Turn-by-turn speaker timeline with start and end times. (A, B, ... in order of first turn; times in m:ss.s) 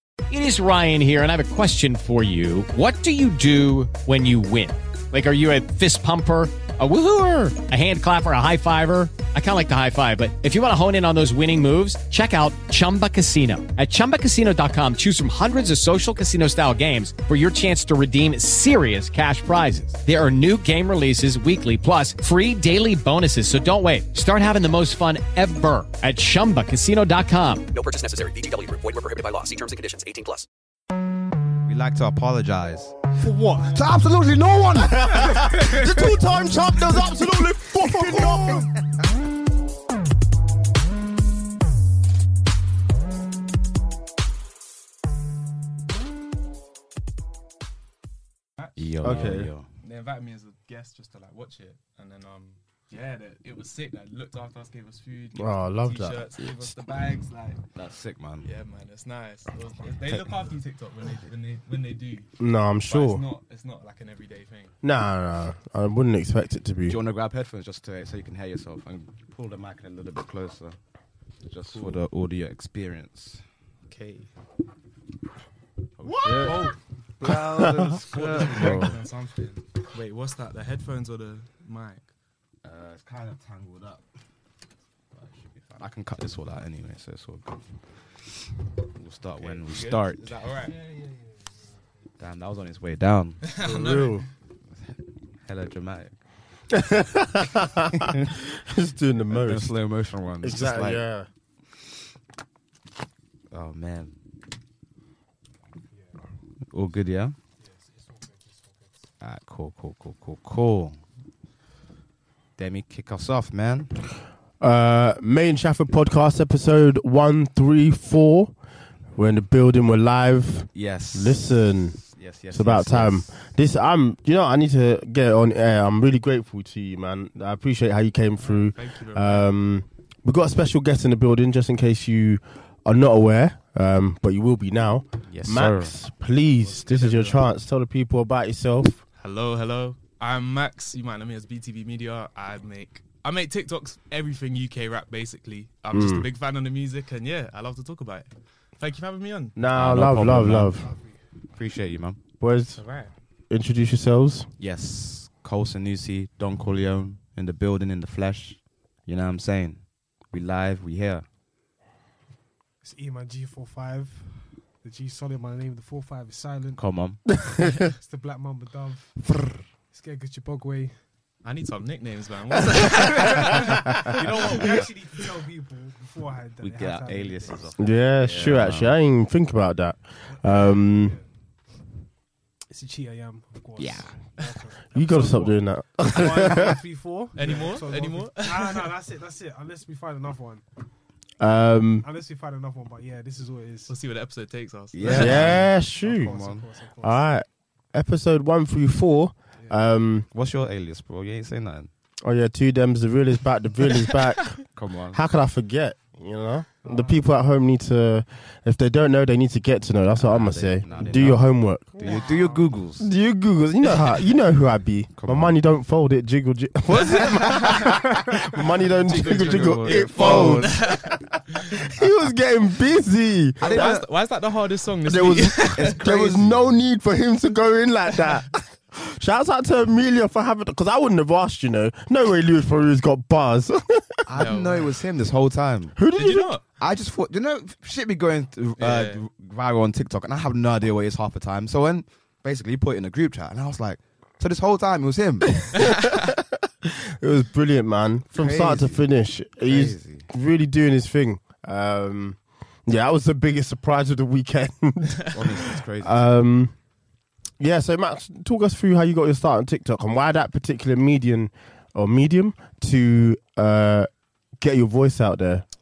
0:00.3-0:27.7 A
0:27.7-0:30.4 B
0:31.6-0:33.0 C
0:33.2-0:33.9 D
0:33.7-0:35.0 C
0:34.7-0:38.7 E
0:34.8-0:36.2 D
0:36.9-0:37.2 D
0:37.8-0:38.7 D
0:48.6-0:57.6 F
0:48.8-0:49.7 C
0:49.0-0:49.5 E
0:55.3-0:56.2 E
0:56.4-0:56.7 C
0:57.7-0:58.5 C
0:58.4-1:02.3 F
1:02.4-1:03.2 E
1:02.9-1:04.7 F
1:04.8-1:07.0 E
1:06.9-1:10.8 C
1:11.4-1:13.4 C
1:11.7-1:12.0 F
1:13.9-1:14.3 F
1:16.0-1:19.0 C
1:16.4-1:16.8 F
1:17.2-1:18.0 E
1:18.1-1:22.0 F
1:22.6-1:24.0 C
1:25.1-1:28.2 C
1:28.9-1:30.3 C
1:29.4-1:30.8 F
1:32.2-1:33.5 C
1:33.4-1:34.2 F
1:33.6-1:34.3 E
1:35.4-1:36.2 C
1:36.7-1:39.7 E
1:39.3-1:41.0 C
1:40.4-1:41.3 E
1:43.5-1:44.2 C
1:45.9-1:46.2 D
1:46.7-1:47.4 C
1:47.6-1:49.1 D
1:49.2-1:51.0 C
1:52.6-1:53.9 C
1:54.6-1:58.5 E
1:59.2-2:19.0 E
2:00.7-2:03.4 C
2:08.4-2:09.5 F
2:15.3-2:15.9 C
2:17.0-2:17.3 F
2:19.2-2:29.6 F
2:25.9-2:26.2 E
2:29.6-2:30.9 E
2:29.7-2:30.7 C
2:30.8-2:31.2 D
2:31.5-2:32.2 C
2:32.4-2:32.8 E
2:32.8-2:33.1 F
2:33.5-2:34.5 E
2:34.6-2:41.2 C
2:42.8-2:46.8 D
2:46.8-2:47.2 C
2:47.9-2:49.2 D
2:49.9-2:51.0 D
2:51.4-2:54.9 F
2:52.9-2:57.9 D
2:56.6-2:58.9 C
2:57.8-3:01.2 E
3:00.3-3:01.2 D
3:02.7-3:10.6 D
3:03.8-3:04.6 C
3:04.9-3:06.8 E
3:07.4-3:08.9 F
3:11.4-3:12.0 E
3:12.0-3:13.9 D
3:13.9-3:15.6 F
3:14.9-3:16.6 C
3:15.1-3:15.4 D
3:15.1-3:16.3 E
3:16.0-3:17.2 D
3:17.0-3:20.3 E
3:20.3-3:21.9 C
3:22.2-3:31.9 E
3:24.7-3:25.2 C
3:26.8-3:27.2 D
3:30.2-3:31.5 C
3:30.9-3:31.2 D
3:32.0-3:32.6 D
3:32.0-3:33.1 C
3:33.0-3:41.2 E
3:35.2-3:35.6 C
3:36.9-3:37.8 F
3:39.0-3:41.7 F
3:39.1-3:40.8 C
3:41.9-3:43.9 E
3:43.6-3:44.0 C
3:43.6-3:46.1 F
3:45.0-3:54.3 E
3:45.7-3:46.8 C
3:54.2-3:56.0 C
3:54.4-3:54.9 F
3:56.0-3:56.6 E
3:56.1-3:56.6 F
3:56.8-4:06.0 C
3:58.8-3:59.2 F
4:05.7-4:15.3 E
4:08.3-4:09.0 C
4:09.6-4:10.3 C
4:15.3-4:16.2 C
4:16.0-4:16.7 E
4:17.6-4:25.6 E